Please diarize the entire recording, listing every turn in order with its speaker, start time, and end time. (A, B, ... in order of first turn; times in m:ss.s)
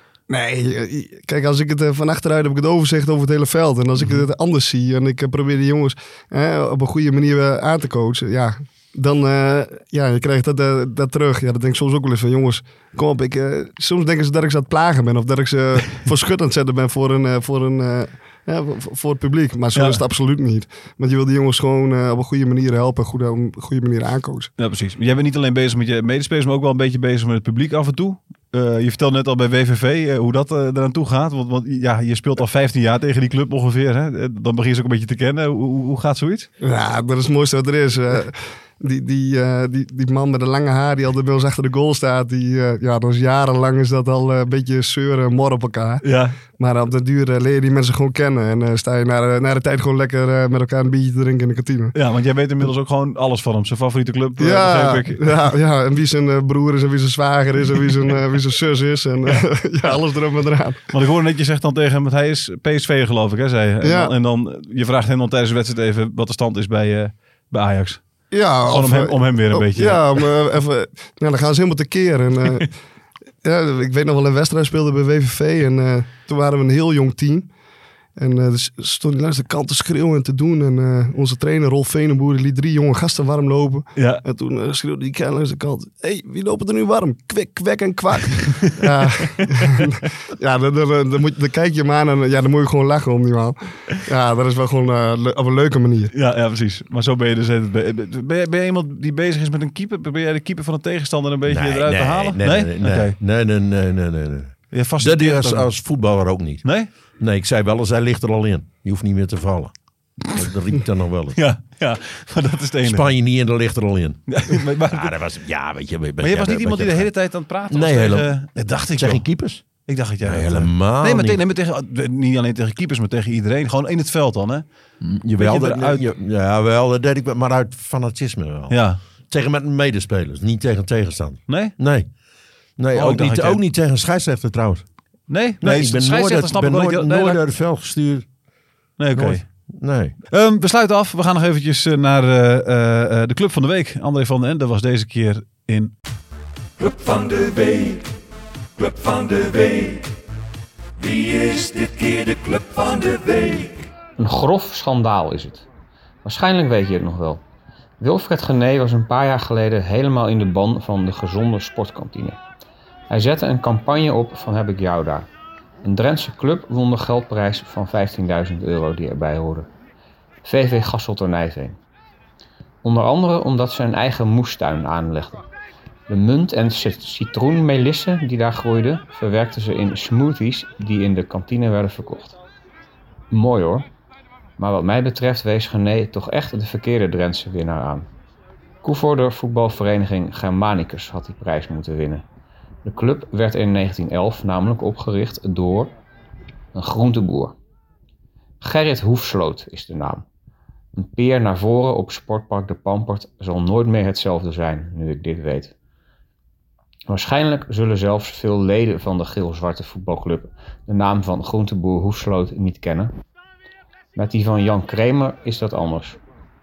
0:00.3-0:24.5 A
0:19.7-0:20.0 B
0:24.6-0:36.5 B
0:36.6-0:46.0 A
0:46.0-0:46.4 B
0:46.5-0:51.9 A
0:51.9-0:55.5 B
0:54.4-1:00.9 A
1:00.9-1:08.0 B
1:03.8-1:04.1 A
1:08.3-1:12.7 A
1:08.7-1:10.3 B
1:13.4-1:17.5 A
1:18.2-1:36.1 A
1:24.0-1:24.2 B
1:29.0-1:29.9 B
1:36.1-1:43.2 B
1:41.4-1:46.6 C
1:44.7-1:45.7 B
1:47.2-1:49.7 C
1:50.3-1:51.4 C
1:51.3-1:53.1 B
1:52.8-1:57.1 C
1:54.3-1:55.1 B
1:56.2-1:59.2 B
1:57.7-1:59.6 C
1:59.8-2:04.6 B
2:00.2-2:01.4 C
2:05.0-2:12.1 C
2:05.4-2:06.0 B
2:08.7-2:09.0 B
2:11.5-2:11.8 B
2:12.8-2:14.8 C
2:12.9-2:13.6 B
2:15.3-2:17.4 B
2:15.6-2:18.3 C
2:19.0-2:19.5 B
2:19.1-2:20.1 C
2:20.3-2:25.9 B
2:26.8-2:28.1 D
2:28.8-2:30.1 D
2:31.0-2:33.9 D
2:34.2-2:35.6 E
2:36.2-2:37.4 E
2:38.0-2:42.4 E
2:43.1-2:45.3 E
2:45.8-2:49.7 E
2:50.4-2:51.8 E
2:52.8-2:55.4 E
2:56.1-3:02.4 E
3:03.3-3:03.9 E
3:04.6-3:08.1 E
3:08.8-3:12.2 E
3:12.8-3:15.9 E
3:16.7-3:17.6 E
3:18.6-3:20.2 E
3:20.9-3:25.7 E
3:27.1-3:33.1 E
3:34.2-3:36.2 E